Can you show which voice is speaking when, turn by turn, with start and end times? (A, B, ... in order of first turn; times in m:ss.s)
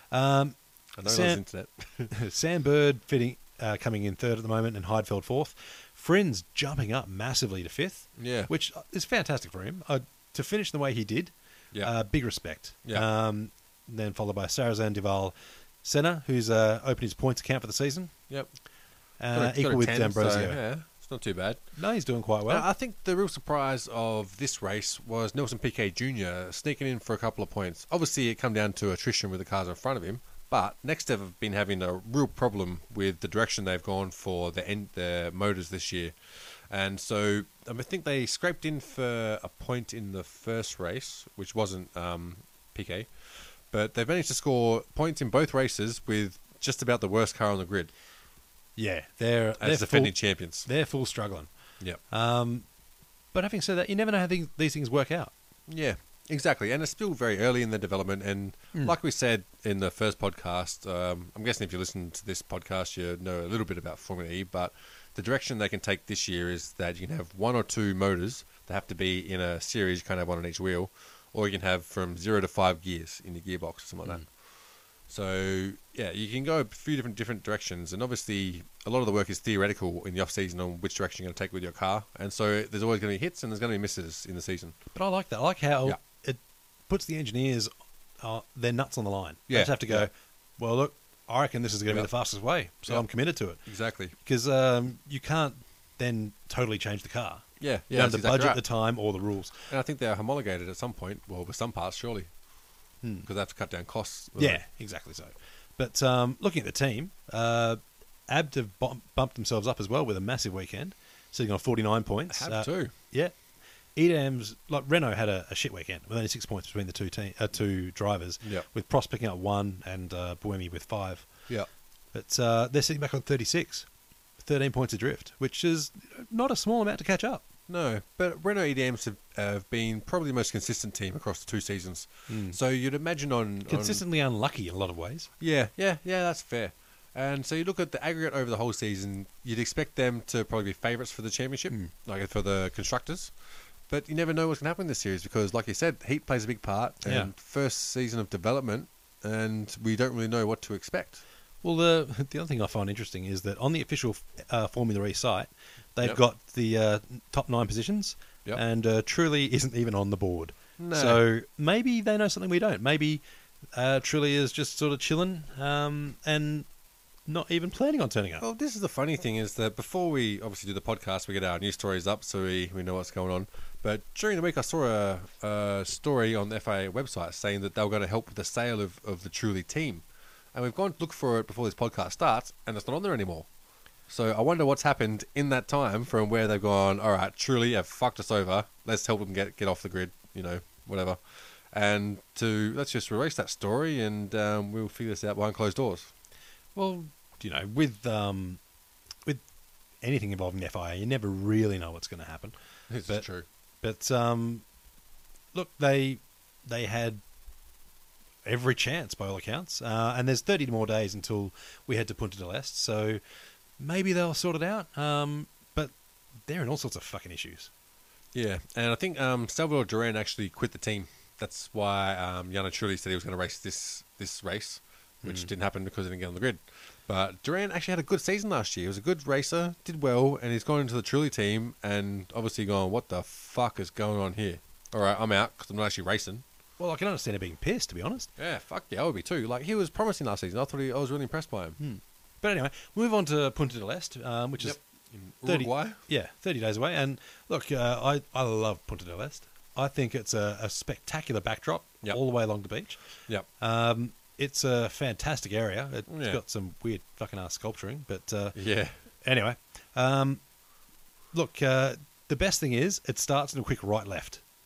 0:00.1-0:01.4 A
0:01.0-0:02.1 B
0:02.1-0:18.1 A
0:08.2-0:08.5 B
0:19.2-0:20.6 A
0:19.3-0:21.7 B
0:21.8-0:22.7 A
0:22.5-0:47.9 B
0:48.8-0:52.7 A
0:49.6-0:50.7 B
0:53.3-0:55.3 A
0:55.7-1:14.4 B
1:15.0-1:24.8 B
1:24.9-1:27.7 A
1:28.2-1:33.6 A
1:29.5-1:30.1 B
1:33.7-1:34.2 B
1:34.2-1:39.7 A
1:37.6-1:38.6 B
1:39.7-1:42.3 B
1:43.0-1:43.3 A
1:43.2-1:44.6 B
1:44.4-1:53.4 A
1:52.3-1:52.9 B
1:54.0-2:01.3 A
2:02.1-2:03.9 A
2:04.4-2:07.4 A
2:07.7-2:14.0 B
2:12.3-2:12.6 A
2:13.7-2:15.3 A
2:15.4-2:23.3 B
2:23.9-2:31.2 B
2:27.0-2:27.3 A
2:31.6-2:43.2 A
2:40.8-2:41.2 B
2:43.8-2:46.7 A
2:47.3-2:48.4 A
2:48.4-3:03.5 B
3:04.1-3:16.1 B
3:16.8-3:18.6 A
3:20.0-3:22.6 A
3:22.9-3:23.4 B
3:23.8-3:24.6 A
3:25.5-3:27.2 A
3:28.4-3:33.2 A
3:33.8-3:35.9 A
3:36.4-3:37.7 A
3:38.3-3:56.4 B
3:45.2-3:45.5 A
3:56.8-3:58.3 A
3:58.4-4:01.8 B
4:01.8-4:04.8 A
4:04.6-4:06.0 B
4:05.4-4:13.0 A
4:13.6-4:18.6 A
4:16.1-4:16.4 B
4:18.6-4:19.0 B
4:19.2-4:20.4 A
4:21.3-4:24.4 A